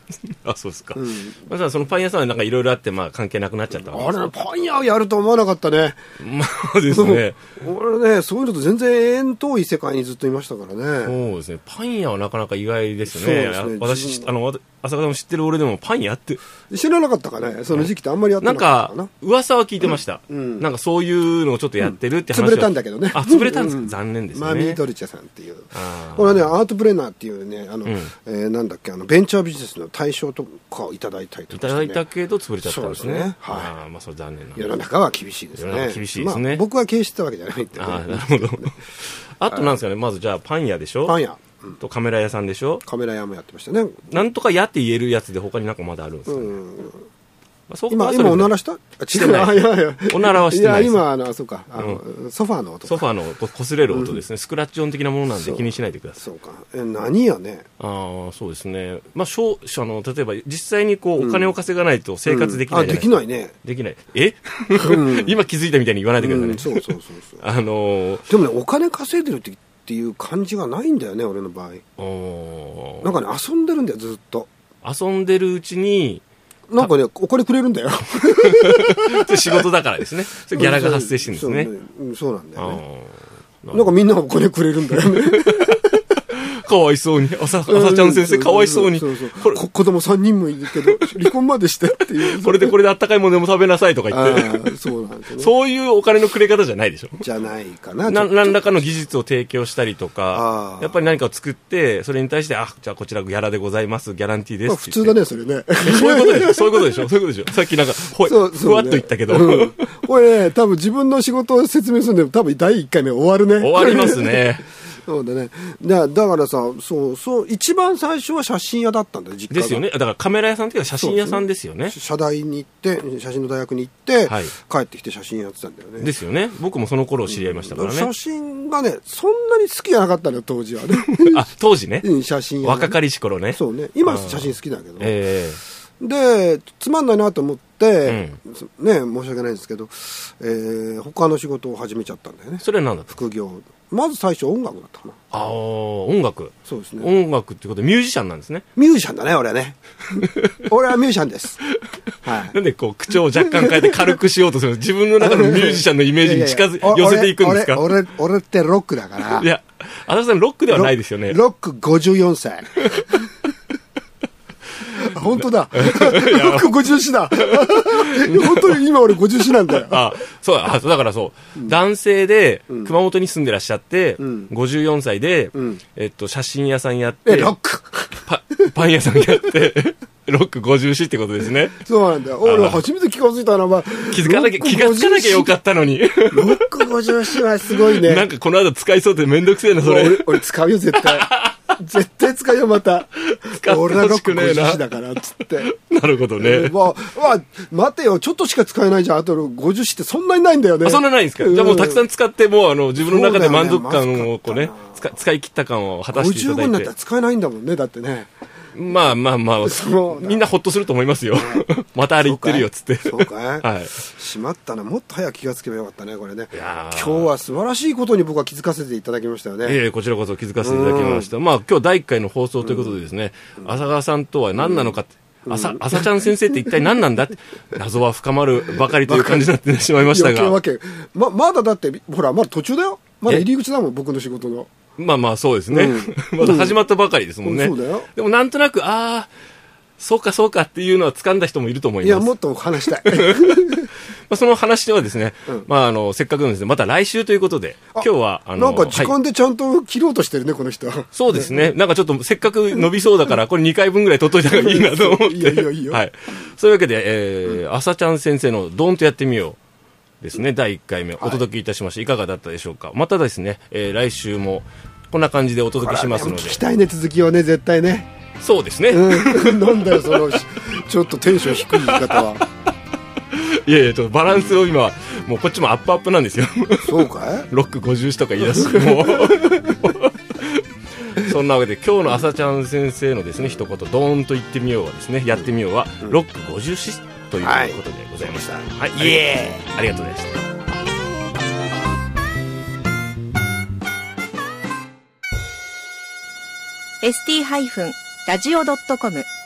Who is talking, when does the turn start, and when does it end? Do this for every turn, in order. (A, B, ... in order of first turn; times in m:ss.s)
0:00.3-0:04.3 A
0:00.9-0:01.4 B
0:03.7-0:06.0 B
0:06.2-0:07.4 A
0:06.9-0:11.2 B
0:11.0-0:16.4 A
0:13.0-0:14.3 B
0:16.7-0:19.1 B
0:17.7-0:24.8 A
0:19.8-0:20.7 B
0:21.8-0:32.0 B
0:25.7-0:26.5 A
0:27.8-0:28.1 A
0:31.5-0:34.8 A
0:32.6-0:33.7 B
0:34.6-0:38.8 B
0:35.5-0:36.6 A
0:37.8-0:41.2 A
0:39.5-0:39.8 B
0:41.0-0:41.8 B
0:41.8-0:42.8 A
0:42.8-0:44.1 B
0:44.1-0:46.6 A
0:46.3-0:47.0 B
0:47.7-0:48.5 A
0:47.9-0:53.1 B
0:49.1-0:51.0 A
0:51.8-0:52.0 A
0:52.8-0:56.2 A
0:53.9-0:54.2 B
0:55.3-0:55.6 B
0:56.2-0:57.7 B
0:57.8-1:08.3 A
1:01.2-1:01.5 B
1:02.2-1:03.5 B
1:04.7-1:05.4 B
1:06.2-1:07.4 B
1:08.3-1:11.8 B
1:12.0-1:13.1 A
1:13.0-1:14.5 B
1:14.8-1:16.2 A
1:16.7-1:19.6 B
1:18.4-1:21.7 A
1:20.5-1:22.8 B
1:22.6-1:23.9 A
1:23.7-1:25.9 B
1:24.9-1:29.6 A
1:27.7-1:32.8 B
1:30.7-1:31.2 A
1:32.2-1:34.7 A
1:34.1-1:35.5 B
1:35.4-1:37.2 A
1:37.2-1:38.8 B
1:38.0-1:45.2 A
1:40.3-1:41.0 B
1:44.6-1:47.0 B
1:45.8-1:49.9 A
1:48.2-1:59.8 B
1:53.6-1:54.7 A
1:59.5-2:02.0 A
2:01.0-2:06.1 B
2:04.2-2:04.5 A
2:06.0-2:08.1 A
2:07.3-2:11.5 B
2:11.0-2:12.1 A
2:12.0-2:13.0 B
2:12.6-2:15.6 A
2:13.5-2:15.2 B
2:16.0-2:25.2 B
2:18.0-2:18.4 A
2:22.6-2:23.1 A
2:25.3-2:28.6 A
2:26.7-2:27.1 B
2:28.8-2:29.8 B
2:30.6-2:31.6 B
2:32.2-2:32.6 B
2:32.4-2:37.9 A
2:33.4-2:34.2 B
2:35.2-2:39.5 B
2:39.4-2:41.4 A
2:40.7-2:43.2 B
2:42.8-2:43.2 A
2:44.8-2:46.7 A
2:44.8-2:50.2 B
2:47.4-2:48.8 A
2:49.5-2:57.5 A
2:54.2-2:54.5 B
2:55.5-2:55.8 B
2:57.2-2:58.3 B
2:58.2-3:01.8 A
3:01.8-3:05.5 B
3:02.4-3:02.8 A
3:04.1-3:07.1 A
3:06.3-3:08.3 B
3:07.7-3:10.4 A
3:09.8-3:15.7 B
3:10.9-3:11.7 A
3:13.2-3:14.8 A
3:15.6-3:16.8 A
3:16.4-3:22.0 B
3:20.8-3:26.9 A
3:23.0-3:25.1 B
3:26.1-3:28.3 B
3:28.7-3:34.0 A
3:29.6-3:30.4 B
3:32.2-3:39.8 B
3:36.5-3:37.3 A
3:39.6-3:50.6 A
3:40.6-3:41.3 B
3:42.6-3:43.1 B
3:44.6-3:44.9 B
3:45.4-3:46.9 B
3:48.8-3:54.7 B
3:55.0-3:59.3 A
3:55.7-3:56.8 B
3:57.4-3:58.1 B
4:00.0-4:09.1 A
4:02.0-4:03.9 B
4:07.9-4:11.7 B
4:11.1-4:19.6 A
4:14.4-4:16.0 B
4:20.2-4:26.6 A
4:21.2-4:21.4 B
4:25.8-4:28.1 B
4:28.4-4:30.3 A
4:28.9-4:32.4 B
4:31.6-4:32.2 A
4:33.3-4:50.4 A
4:36.8-4:37.5 B
4:38.4-4:39.3 B
4:47.4-4:49.6 B
4:57.0-4:59.3 C